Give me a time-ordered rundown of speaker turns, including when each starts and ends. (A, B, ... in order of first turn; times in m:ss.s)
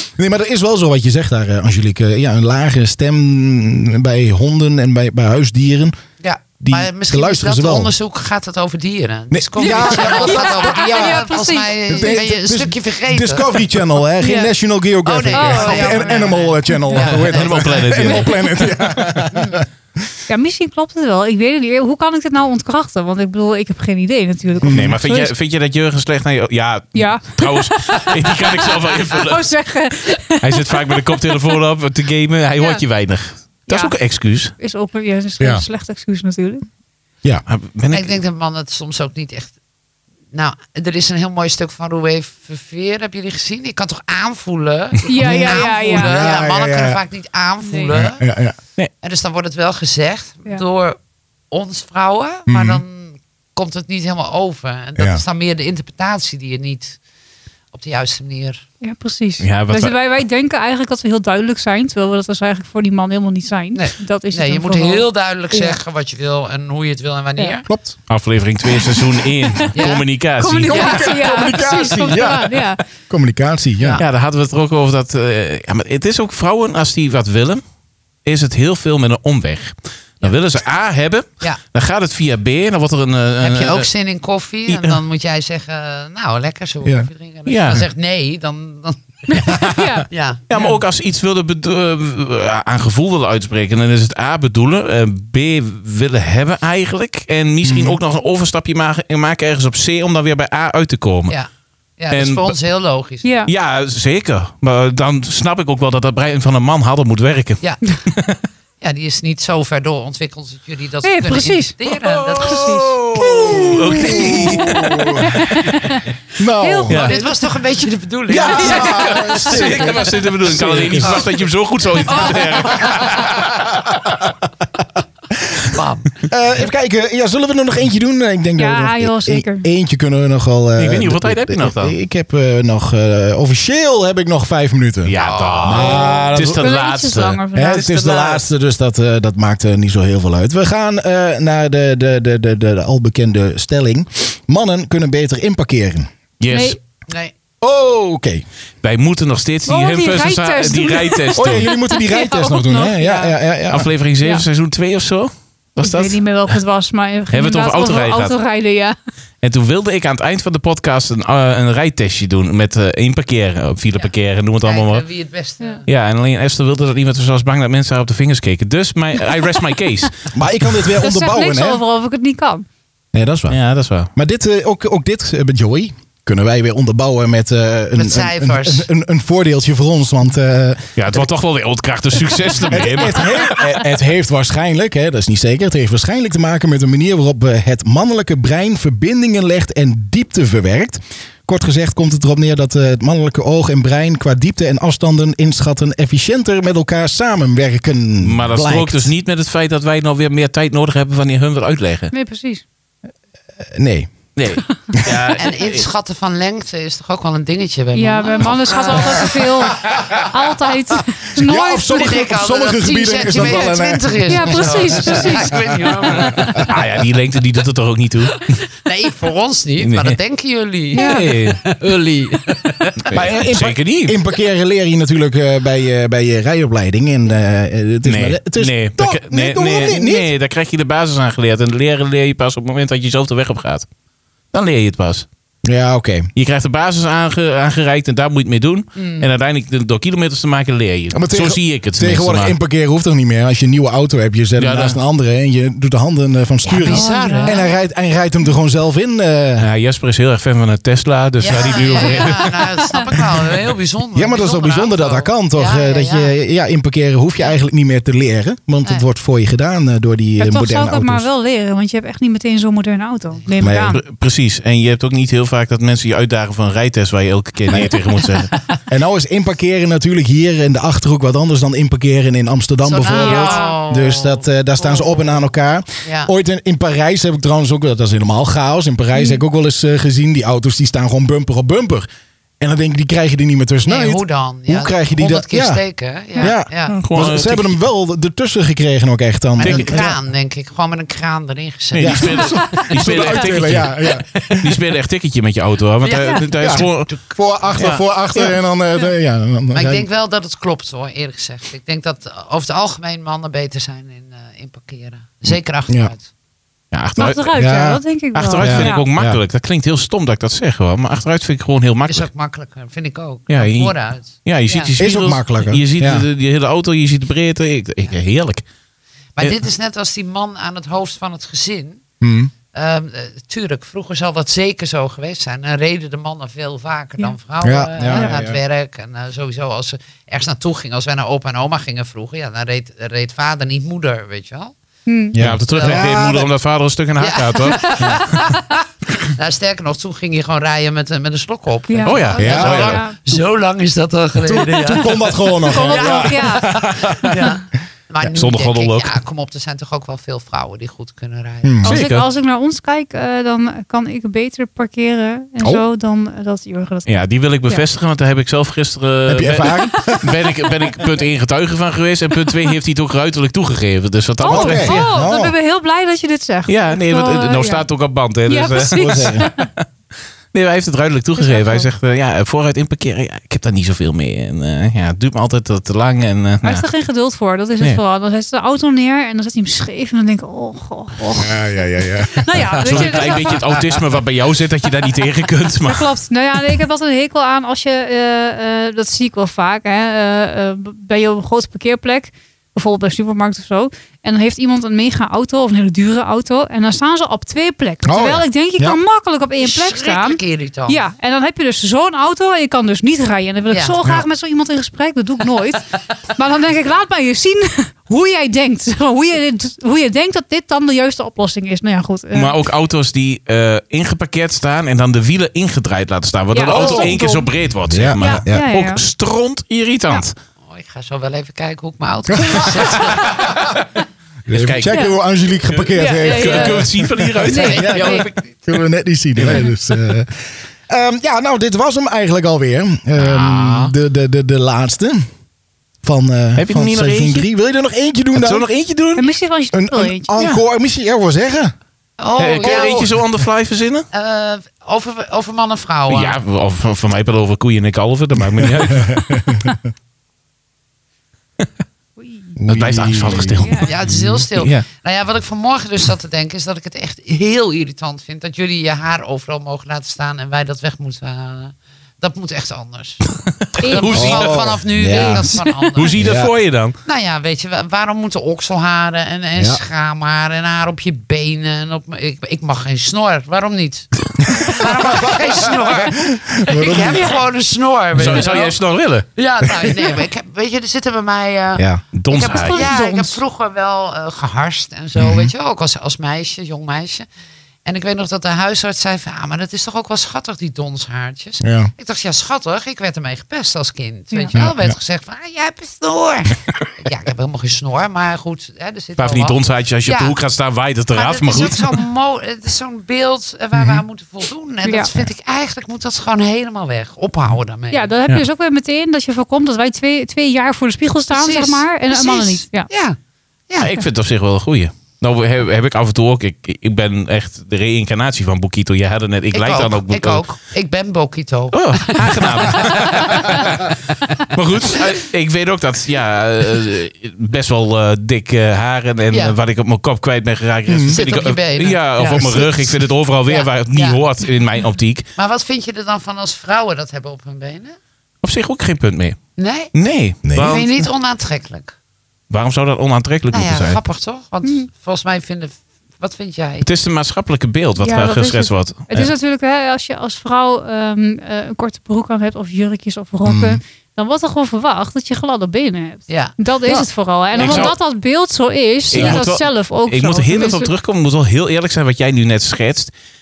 0:00.2-0:06.0 A
0:06.2-0:13.6 B
0:06.6-0:07.9 A
0:09.3-0:11.3 A
0:09.6-0:12.2 C
0:11.9-0:19.6 A
0:14.2-0:14.5 C
0:15.0-0:18.2 B
0:15.3-0:16.8 C
0:17.1-0:19.3 D
0:19.3-0:19.6 B
0:20.3-0:25.3 C
0:24.6-0:25.0 A
0:24.6-0:29.4 D
0:27.0-0:31.6 C
0:30.4-0:34.5 D
0:32.6-0:32.8 C
0:33.7-0:34.0 C
0:34.6-0:36.7 C
0:35.4-0:35.6 A
0:37.5-0:38.1 D
0:37.9-0:39.5 B
0:40.3-0:48.2 B
0:45.1-0:46.3 C
0:45.2-0:47.0 A
0:47.6-0:47.9 C
0:47.9-0:48.6 A
0:49.0-0:51.0 B
0:51.5-0:57.0 B
0:52.5-0:52.8 A
0:57.7-0:58.6 B
0:58.8-1:05.8 C
0:59.4-1:00.0 D
1:03.8-1:07.6 B
1:07.7-1:08.0 A
1:08.1-1:11.1 D
1:09.7-1:10.0 B
1:10.4-1:12.8 C
1:10.7-1:14.0 A
1:14.0-1:17.6 D
1:18.2-1:23.9 D
1:23.4-1:30.8 B
1:24.7-1:25.0 D
1:26.8-1:27.1 A
1:27.5-1:27.8 D
1:29.3-1:30.6 C
1:30.5-1:41.4 D
1:37.6-1:38.0 A
1:42.0-1:43.3 B
1:42.1-1:42.6 D
1:43.2-1:43.5 C
1:43.5-1:47.6 D
1:48.8-1:52.8 B
1:51.0-1:51.8 C
1:52.4-1:56.0 C
1:52.5-1:55.8 D
1:53.1-1:55.5 A
1:56.4-1:57.0 A
1:56.6-1:57.3 C
1:56.9-1:57.2 D
1:56.9-1:59.9 B
1:58.3-2:01.3 A
1:58.4-2:04.1 D
1:58.5-1:59.6 C
2:01.0-2:01.5 B
2:02.0-2:03.1 B
2:05.6-2:06.3 B
2:06.3-2:16.7 A
2:08.6-2:09.7 C
2:10.8-2:12.0 D
2:15.0-2:17.4 D
2:15.1-2:16.2 B
2:15.8-2:18.4 C
2:17.6-2:26.1 A
2:26.4-2:26.8 D
2:26.5-2:26.8 C
2:27.1-2:27.3 B
2:27.6-2:28.4 A
2:28.8-2:31.7 D
2:29.7-2:33.3 C
2:31.4-2:33.9 A
2:33.7-2:36.6 D
2:35.8-2:39.0 C
2:37.3-2:38.4 D
2:39.4-2:45.0 D
2:43.9-2:45.9 B
2:45.9-2:50.3 D
2:50.3-2:51.8 A
2:51.0-2:52.7 C
2:53.1-2:53.6 A
2:53.5-2:54.1 D
2:54.1-3:01.3 A
2:58.0-2:58.9 B
3:01.0-3:03.7 D
3:02.7-3:19.1 A
3:18.2-3:22.1 D
3:22.1-3:22.6 C
3:23.6-3:24.1 A
3:24.4-3:25.8 D
3:25.4-3:29.4 B
3:27.9-3:32.2 C
3:31.4-3:36.6 A
3:31.8-3:36.8 B
3:33.4-3:35.7 C
3:36.2-3:38.5 D
3:38.4-3:43.1 B
3:39.8-3:40.2 D
3:40.9-3:41.4 C
3:40.9-3:41.7 D
3:43.0-3:44.2 D
3:43.1-3:50.3 A
3:48.0-3:53.9 D
3:54.5-3:55.3 D
3:55.6-3:56.3 A
3:56.4-4:02.6 D
3:59.0-3:59.3 B
4:01.1-4:09.7 A
4:04.6-4:05.0 D
4:06.6-4:07.7 B
4:06.9-4:07.6 C
4:09.6-4:12.8 D
4:11.4-4:16.3 B
4:14.1-4:21.3 A
4:20.4-4:24.0 C
4:23.6-4:24.0 A
4:23.9-4:28.5 D
4:27.7-4:28.0 A
4:28.9-4:42.1 A
4:32.8-4:35.4 B
4:33.1-4:33.8 C
4:36.0-4:36.3 B
4:39.1-4:39.4 C
4:42.6-4:45.8 A
4:43.8-4:47.0 B
4:46.4-4:50.1 A
4:46.9-4:47.8 D
4:49.6-4:53.4 B
4:49.6-4:50.0 D
4:52.0-4:54.8 A
4:52.0-4:57.1 D
4:56.0-4:57.4 B
4:56.5-5:00.1 A
4:57.8-4:58.6 D
4:59.7-5:06.3 B
5:06.9-5:07.5 D
5:07.2-5:09.1 C
5:07.6-5:08.0 A
5:08.3-5:12.3 D
5:08.6-5:09.4 A
5:12.1-5:14.9 B
5:13.5-5:18.6 D
5:15.0-5:16.2 A
5:19.4-5:22.0 B
5:22.2-5:22.5 A
5:22.7-5:34.8 B
5:27.6-5:28.6 A
5:35.1-5:35.4 C
5:35.3-5:36.3 A
5:35.4-5:38.5 D
5:35.7-5:36.5 B
5:37.2-5:51.8 B
5:41.9-5:43.2 C
5:42.0-5:43.1 D
5:42.4-5:42.8 A
5:44.4-5:47.1 A
5:45.6-5:47.5 C
5:48.3-5:49.1 D
5:51.6-5:52.0 A
5:51.8-5:57.1 C
5:51.8-5:52.3 D
5:57.1-6:05.1 D
5:59.3-6:00.4 A
6:04.4-6:07.8 C
6:04.5-6:05.5 A
6:06.7-6:09.8 D
6:08.5-6:09.7 C
6:08.9-6:09.5 A
6:10.5-6:16.9 D
6:11.4-6:11.9 C
6:16.6-6:21.7 C
6:21.4-6:23.8 A
6:22.3-6:23.7 C
6:22.8-6:26.1 D
6:25.8-6:52.7 C
6:38.0-6:39.0 A
6:39.6-6:41.0 B
6:43.7-6:44.0 B
6:52.3-7:00.4 D
6:56.5-6:57.5 C
6:56.7-6:57.1 A
6:57.9-6:58.7 A
6:58.2-6:59.0 C
7:00.6-7:03.5 B
7:02.3-7:03.8 A
7:04.5-7:15.3 A
7:04.5-7:05.1 D
7:04.9-7:05.1 C
7:06.0-7:08.3 C
7:06.2-7:08.2 D
7:07.5-7:08.5 B
7:09.4-7:09.8 D
7:13.2-7:13.9 D
7:16.0-7:18.7 A
7:16.6-7:17.5 D
7:18.3-7:19.3 D
7:19.2-7:20.3 C
7:19.7-7:21.7 A
7:22.2-7:23.1 B
7:22.4-7:24.1 D
7:22.6-7:23.1 A
7:24.1-7:26.4 B
7:26.1-7:29.4 D
7:28.6-7:29.7 A
7:32.2-7:32.5 C
7:32.6-7:34.4 A
7:32.7-7:33.9 D
7:33.6-7:33.9 C
7:33.8-7:43.2 B
7:34.6-7:34.8 D
7:43.6-7:45.3 D
7:43.8-7:44.4 C
7:43.9-7:46.1 B
7:44.1-7:45.6 A
7:45.1-7:45.6 C
7:45.9-7:47.0 D
7:46.2-7:46.5 A
7:47.0-7:58.8 B
7:54.5-7:57.4 A
7:58.1-7:59.3 D
7:59.4-8:07.3 B
8:01.8-8:02.0 A
8:02.1-8:02.9 D
8:02.5-8:03.4 C
8:05.2-8:05.5 A
8:07.8-8:20.4 B
8:11.6-8:11.9 A
8:14.3-8:14.7 C
8:14.6-8:15.0 A
8:19.2-8:22.0 D
8:21.1-8:28.1 B
8:24.9-8:25.1 C
8:27.9-8:32.9 C
8:31.3-8:33.2 B
8:33.7-8:33.9 B
8:33.8-8:40.4 D
8:39.5-8:43.7 B
8:41.7-8:55.3 D
8:49.3-8:49.6 B
8:50.9-8:51.2 A
8:51.1-8:52.6 B
8:52.3-8:52.9 A
8:53.5-8:54.2 B
8:55.4-8:58.0 B
8:58.4-8:59.4 D
8:59.6-8:59.9 B
8:59.9-9:01.1 D
9:00.4-9:00.8 A
9:00.5-9:01.9 B
9:02.5-9:04.0 D
9:03.5-9:06.9 B
9:06.8-9:09.3 D
9:08.0-9:20.9 C
9:13.5-9:13.8 A
9:16.3-9:16.5 B
9:17.5-9:17.9 B
9:17.6-9:17.9 D
9:19.1-9:23.1 D
9:19.1-9:19.4 B